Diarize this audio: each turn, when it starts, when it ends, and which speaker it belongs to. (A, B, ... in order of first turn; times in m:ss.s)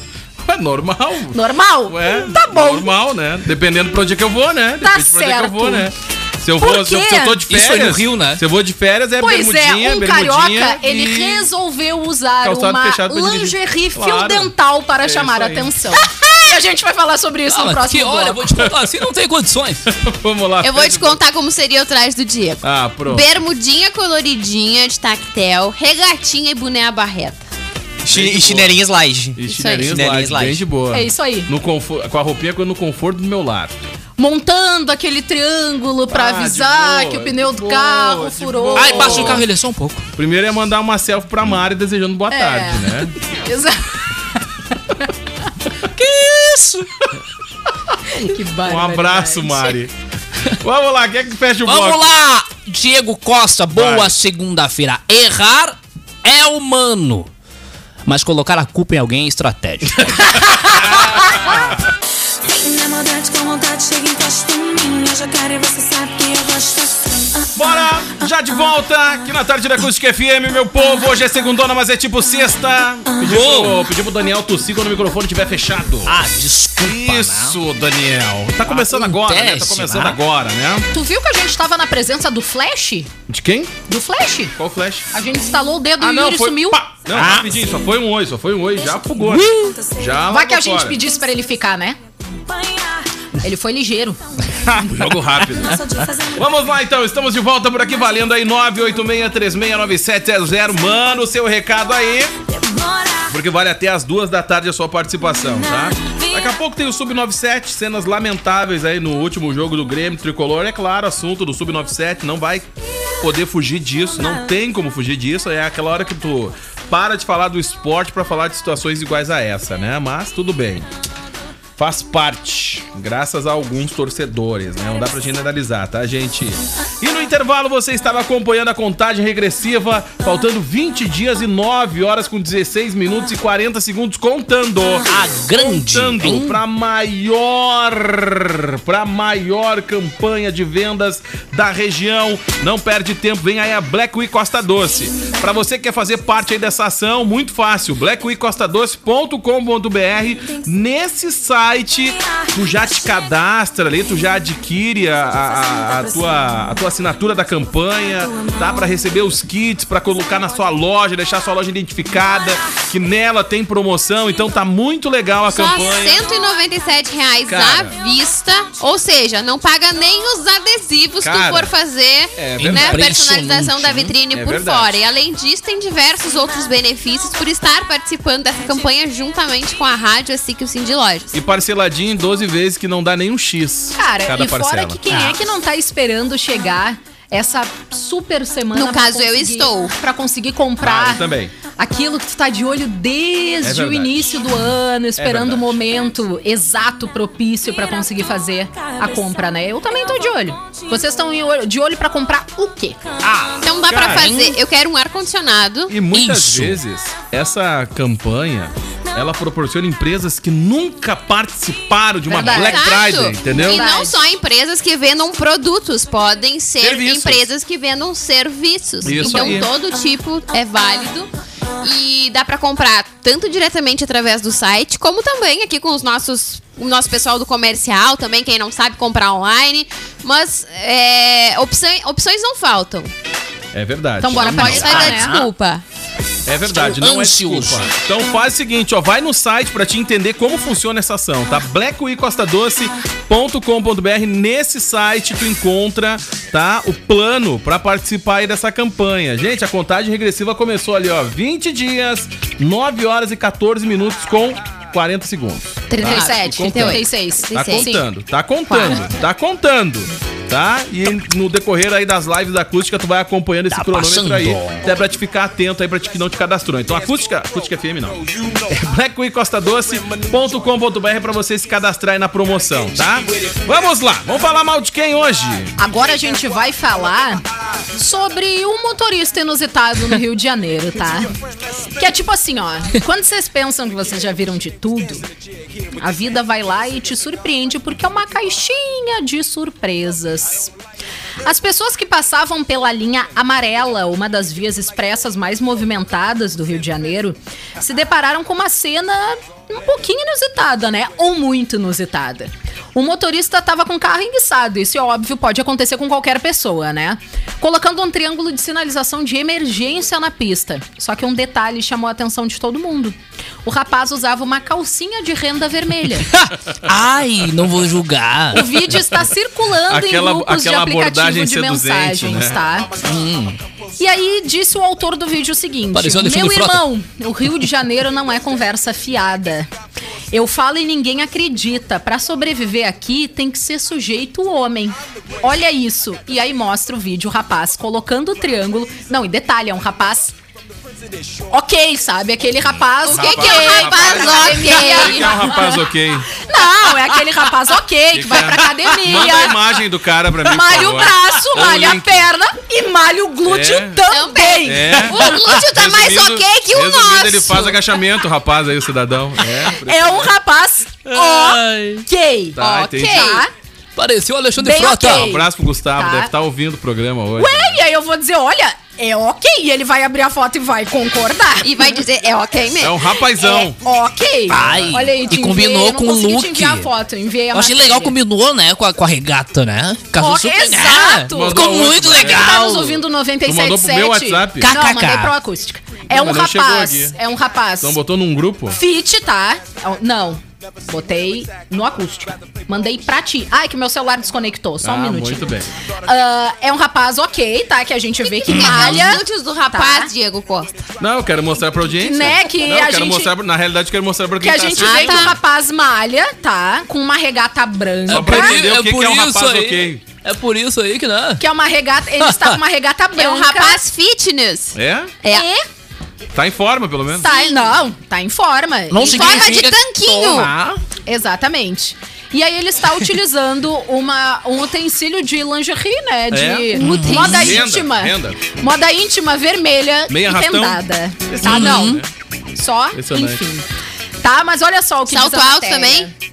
0:00.4-0:11.5 A
0:01.3-0:02.9 B
0:04.8-0:05.9 B
0:06.6-0:07.4 B
0:07.5-0:08.4 C
0:09.2-0:18.5 B
0:12.4-0:15.7 A
0:17.5-0:19.9 C
0:19.9-0:21.2 A
0:20.6-0:27.4 D
0:22.6-0:23.3 A
0:28.0-0:30.6 E
0:28.1-0:28.8 A
0:29.4-0:33.8 A
0:29.5-0:30.0 D
0:30.9-0:31.5 B
0:34.2-0:39.4 B
0:36.1-0:39.5 A
0:38.8-0:40.0 C
0:40.2-0:43.2 A
0:42.3-0:44.0 B
0:46.0-0:46.9 C
0:48.1-0:49.7 B
0:48.6-0:49.9 A
0:50.5-0:52.2 A
0:51.7-0:57.3 C
0:53.7-0:54.1 A
0:58.1-1:01.6 C
1:00.2-1:01.6 A
1:02.4-1:07.7 F
1:07.6-1:16.2 A
1:13.1-1:13.4 F
1:13.2-1:13.8 C
1:16.1-1:17.6 C
1:16.8-1:20.9 A
1:18.7-1:20.2 C
1:20.9-1:23.1 B
1:23.3-1:23.8 A
1:23.9-1:24.6 B
1:24.6-1:25.1 A
1:25.1-1:26.8 B
1:26.0-1:31.0 A
1:27.1-1:27.6 C
1:28.8-1:30.2 F
1:29.3-1:29.7 C
1:30.3-1:32.0 B
1:32.5-1:33.1 F
1:33.4-1:34.2 B
1:34.8-1:42.4 A
1:35.4-1:36.7 F
1:42.5-1:43.4 F
1:43.3-1:52.7 A
1:45.6-1:46.5 F
1:53.2-2:00.9 A
2:01.8-2:46.2 A
2:15.1-2:16.6 C
2:45.5-3:01.3 D
2:47.4-2:48.0 A
2:51.2-2:51.7 A
2:52.4-2:53.0 A
2:52.6-2:54.2 C
2:54.3-2:55.0 A
3:01.3-3:05.0 A
3:04.0-3:11.2 B
3:05.1-3:05.4 C
3:08.7-3:09.9 D
3:10.8-3:11.5 A
3:11.8-3:23.0 B
3:13.6-3:14.4 A
3:15.2-3:15.8 A
3:23.2-3:24.6 C
3:23.6-3:26.0 D
3:23.9-3:24.3 A
3:25.9-3:33.8 A
3:26.1-3:26.8 C
3:32.3-3:32.9 B
3:32.3-3:41.3 D
3:33.5-3:34.2 B
3:36.8-3:37.4 A
3:39.0-3:39.7 A
3:39.2-3:39.6 B
3:41.8-3:53.1 D
3:53.7-3:55.1 A
3:54.2-3:55.3 B
3:54.4-3:55.8 D
3:54.6-3:55.5 C
3:56.5-4:35.8 A
3:56.7-3:57.9 C
4:15.9-4:18.0 B
4:16.0-4:17.9 D
4:18.7-4:19.0 D
4:23.7-4:24.8 C
4:35.8-4:37.4 B
4:38.0-4:41.3 B
4:42.0-4:45.2 B
4:46.0-4:50.7 B
4:51.4-5:16.3 B
5:16.3-5:18.8 C
5:18.5-5:22.9 B
5:18.9-5:19.3 A
5:19.9-5:22.6 A
5:23.0-5:23.6 C
5:24.0-5:29.7 B
5:25.9-5:26.8 C
5:30.3-5:40.3 B
5:41.5-5:49.6 B
5:43.0-5:46.3 A
5:43.0-5:45.5 D
5:48.1-5:52.3 A
5:50.4-5:55.3 B
5:53.4-5:54.0 A
5:54.1-5:57.8 D
5:54.6-6:00.4 A
5:59.8-6:03.5 B
6:01.1-6:02.0 C
6:02.6-6:03.4 A
6:02.6-6:03.4 D
6:04.0-6:05.3 C
6:04.6-6:06.3 B
6:05.0-6:07.8 A
6:07.4-6:11.9 B
6:11.6-6:13.1 D
6:12.8-6:13.8 A
6:13.4-6:18.2 B
6:14.5-6:16.9 C
6:14.6-6:14.9 A
6:17.5-6:23.0 C
6:20.2-6:28.0 B
6:21.3-6:22.7 A
6:23.4-6:24.7 A
6:24.6-6:25.4 C
6:26.1-6:27.2 A
6:27.8-6:28.8 A
6:28.7-6:35.5 B
6:34.8-6:35.7 A
6:36.0-6:40.1 B
6:38.2-6:40.8 D
6:38.5-6:39.0 C
6:41.0-6:45.4 A
6:42.0-6:43.3 B
6:44.4-6:48.6 B
6:44.8-6:45.4 D
6:48.1-6:50.0 A
6:48.1-6:51.4 C
6:51.4-6:53.8 B
6:52.2-6:52.6 C
6:53.2-6:55.5 D
6:54.8-6:55.1 A
6:55.3-6:55.7 B
6:56.4-6:57.3 A
6:57.2-6:59.6 B
6:57.2-6:57.7 D
6:58.9-7:00.8 C
6:59.0-7:00.5 D
7:01.1-7:12.0 B
7:06.3-7:08.4 A
7:06.8-7:07.6 C
7:10.1-7:12.1 A
7:11.4-7:12.0 C
7:12.6-7:13.6 B
7:12.9-7:13.4 A
7:14.2-7:16.1 B
7:15.1-7:16.1 D